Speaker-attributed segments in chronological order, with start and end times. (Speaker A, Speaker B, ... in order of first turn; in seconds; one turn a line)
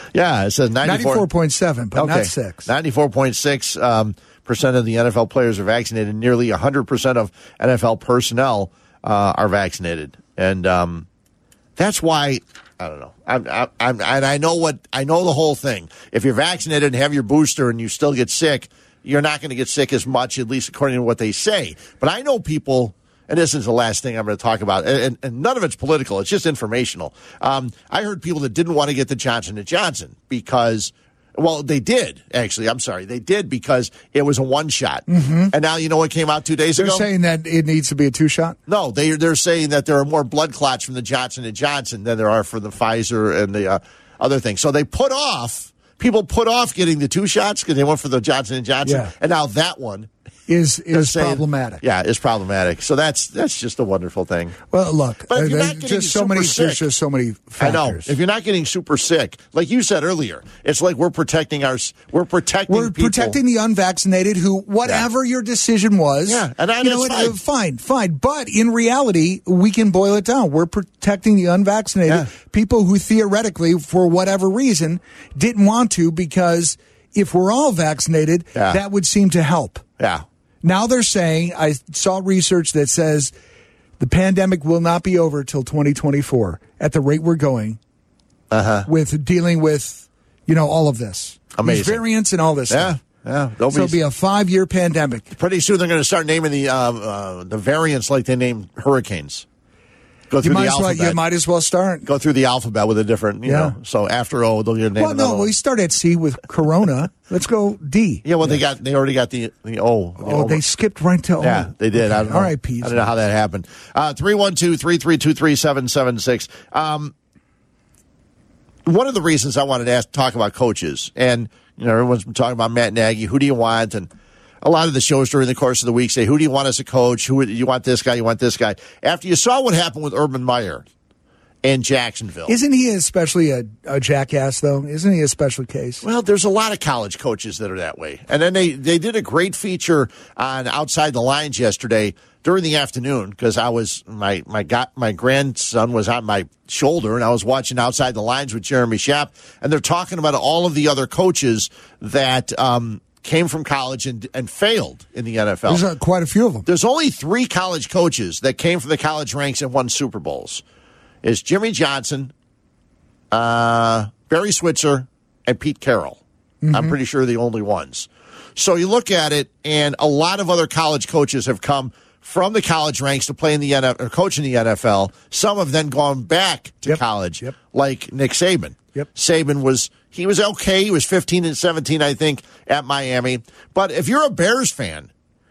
Speaker A: 0.1-1.3
Speaker B: 0.8-2.7
Speaker A: 1.9-11.1
Speaker A: 11.8-37.1
Speaker B: 35.1-35.5
Speaker B: 36.8-38.6
Speaker A: 38.7-50.1
Speaker B: 48.8-49.1
Speaker B: 50.5-51.8
Speaker A: 50.9-54.5
Speaker B: 54.7-58.1
Speaker A: 55.3-56.9
Speaker A: 57.6-63.4
Speaker B: 62.7-79.8
Speaker A: 66.2-67.4
Speaker A: 78.5-78.8
Speaker A: 80.0-80.2
Speaker B: 80.6-83.3
Speaker B: 84.0-87.8
Speaker A: 88.5-88.9
Speaker B: 88.8-93.0
Speaker A: 91.5-92.0
Speaker A: 92.7-94.0
Speaker B: 93.7-95.3
Speaker A: 95.3-99.5
Speaker A: 100.3-101.2
Speaker B: 100.4-102.1
Speaker A: 102.0-105.5
Speaker B: 103.5-103.8
Speaker B: 105.0-108.6
Speaker A: 108.2-110.6
Speaker B: 110.2-113.1
Speaker A: 111.4-117.1
Speaker A: 118.8-124.1
Speaker A: 124.6-130.8
Speaker A: 131.6-132.6
Speaker B: 132.5-136.0
Speaker A: 136.0-155.8
Speaker B: 155.7-156.7
Speaker A: 156.7-160.6
Speaker A: 161.2-162.3
Speaker A: 163.3-166.2
Speaker B: 166.6-166.9
Speaker A: 166.7-185.1
Speaker B: 176.8-177.5